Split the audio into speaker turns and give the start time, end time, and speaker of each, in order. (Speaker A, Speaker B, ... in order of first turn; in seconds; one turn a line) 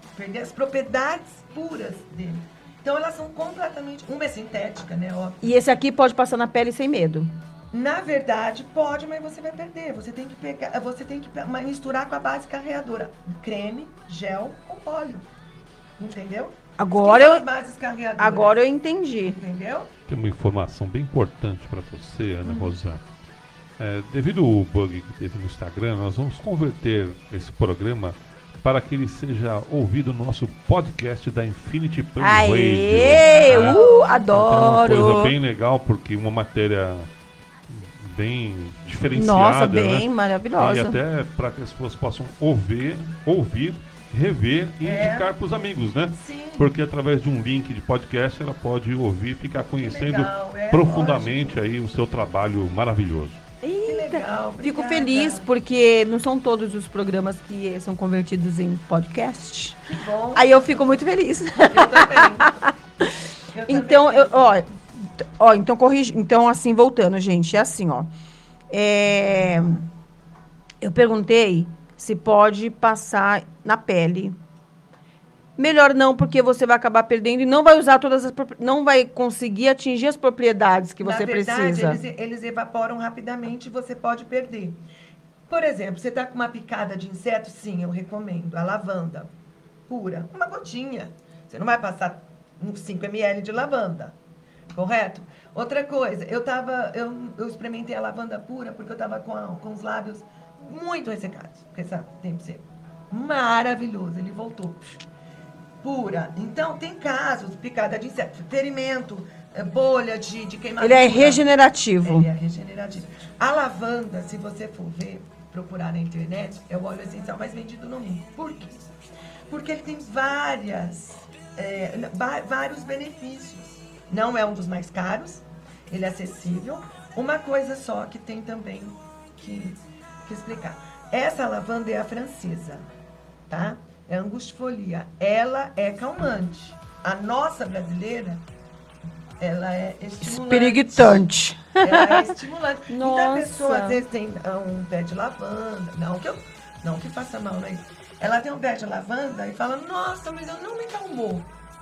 Speaker A: 0.1-5.4
Speaker B: 5.4-7.3
Speaker A: 7.7-15.3
Speaker A: 16.0-18.6
Speaker B: 16.8-17.5
Speaker B: 18.2-19.4
Speaker A: 19.2-19.9
Speaker C: 20.1-23.0
Speaker A: 22.4-22.8
Speaker C: 23.8-37.1
Speaker B: 32.2-35.3
Speaker A: 33.2-34.2
Speaker C: 37.7-53.4
Speaker B: 39.1-41.0
Speaker A: 44.8-45.4
Speaker A: 46.1-46.8
Speaker A: 49.7-51.6
Speaker B: 53.6-59.8
Speaker A: 53.9-55.5
Speaker A: 59.9-60.8
Speaker B: 60.3-63.1
Speaker A: 61.7-62.6
Speaker A: 63.5-64.5
Speaker B: 63.7-68.1
Speaker B: 68.7-69.8
Speaker B: 70.8-74.4
Speaker B: 75.6-82.0
Speaker A: 81.0-84.8
Speaker A: 85.5-89.3
Speaker A: 89.9-94.2
Speaker A: 94.7-104.9
Speaker A: 105.8-111.4
Speaker B: 110.8-112.3
Speaker A: 112.0-118.9
Speaker A: 119.5-132.9
Speaker A: 133.5-138.4
Speaker A: 139.4-141.2
Speaker B: 140.2-142.4
Speaker A: 141.8-151.5
Speaker B: 142.9-144.0